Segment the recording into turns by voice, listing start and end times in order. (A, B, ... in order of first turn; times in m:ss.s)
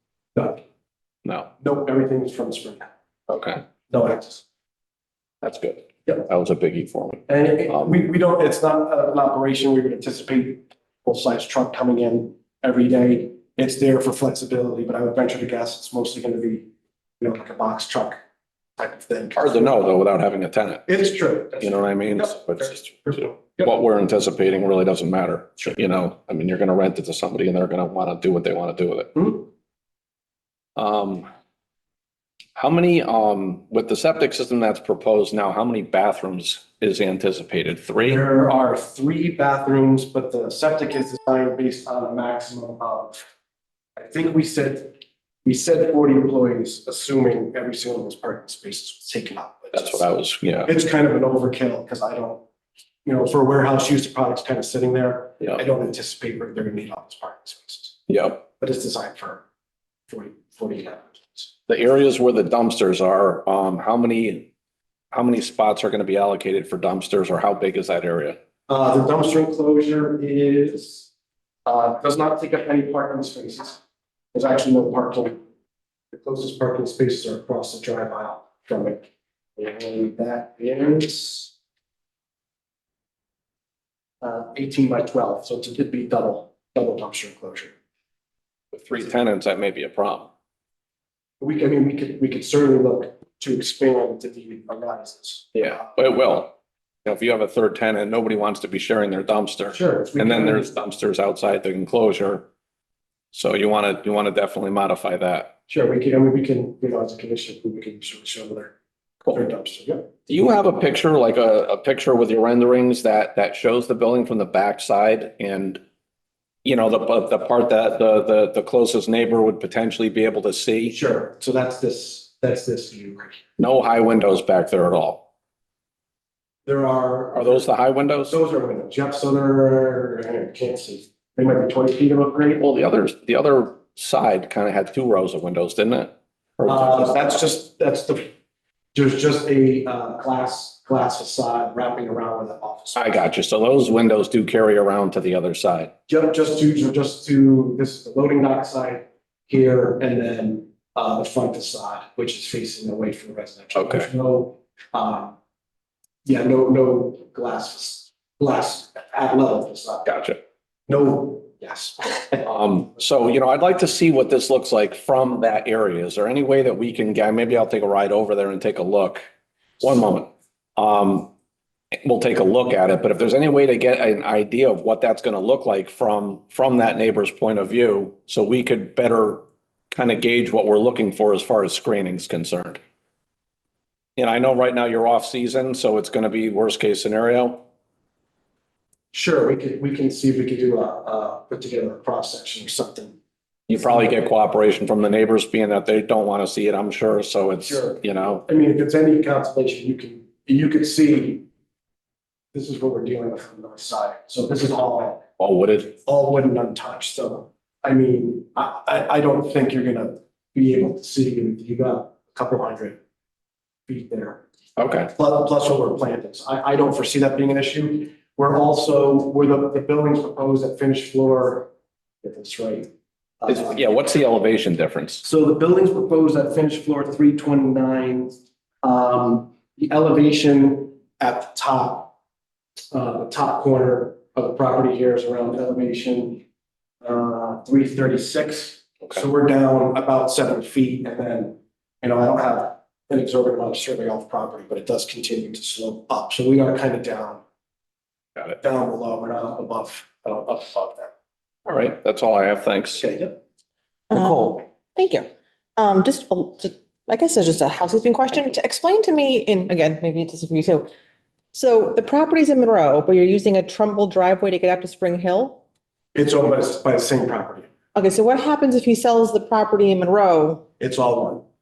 0:00.3-0:00.6 A
0:01.6-0:02.9 A
0:03.3-0:03.6 B
0:03.9-0:04.4 A
0:05.4-0:07.9 B
0:07.3-0:16.6 A
0:17.2-0:18.2 A
0:18.8-0:19.8 A
0:19.3-0:20.9 B
0:20.9-0:23.7 A
0:21.6-0:29.1 B
0:29.1-0:29.4 A
0:30.8-0:31.3 B
0:32.6-0:38.2 B
0:38.0-0:43.2 A
0:44.0-0:50.0 A
0:49.7-0:50.7 B
0:50.6-0:52.4 A
0:53.0-0:58.0 A
0:58.1-0:58.4 B
0:58.6-0:59.4 A
1:00.1-1:01.5 A
1:01.7-1:04.5 B
1:05.1-1:08.4 B
1:08.7-1:11.1 A
1:11.6-1:13.8 A
1:14.3-1:15.4 A
1:16.1-1:21.5 A
1:24.2-1:27.7 A
1:28.7-1:30.3 B
1:31.4-1:35.8 A
1:35.5-1:42.5 B
1:39.7-1:40.7 A
1:43.3-1:45.5 B
1:45.7-1:48.7 A
1:49.3-1:50.1 A
1:50.2-1:55.8 B
1:56.6-2:01.0 B
2:00.9-2:03.4 A
2:03.6-2:05.2 B
2:06.6-2:07.7 A
2:07.3-2:08.3 B
2:08.2-2:12.6 A
2:12.6-2:17.4 B
2:16.6-2:18.3 A
2:18.9-2:23.0 A
2:22.9-2:25.9 B
2:26.1-2:35.3 A
2:33.7-2:34.1 B
2:36.2-2:40.1 A
2:40.0-2:40.4 B
2:40.9-2:42.5 A
2:42.4-2:49.2 B
2:49.8-2:51.3 B
2:52.0-3:02.8 B
3:04.2-3:07.6 B
3:09.1-3:13.2 A
3:13.7-3:18.4 B
3:17.6-3:21.4 A
3:22.5-3:25.2 A
3:25.4-3:25.9 B
3:25.9-3:33.0 A
3:33.9-3:34.4 A
3:34.8-3:35.1 B
3:35.1-3:41.7 A
3:42.2-3:42.9 A
3:43.4-3:43.8 A
3:43.5-3:45.2 B
3:45.2-3:52.1 A
3:52.9-3:56.4 A
3:57.0-4:07.4 A
4:08.6-4:11.1 A
4:11.6-4:13.0 B
4:13.0-4:13.4 A
4:14.1-4:20.9 C
4:21.5-4:25.6 C
4:26.1-4:27.7 A
4:27.9-4:30.6 C
4:30.8-4:31.4 A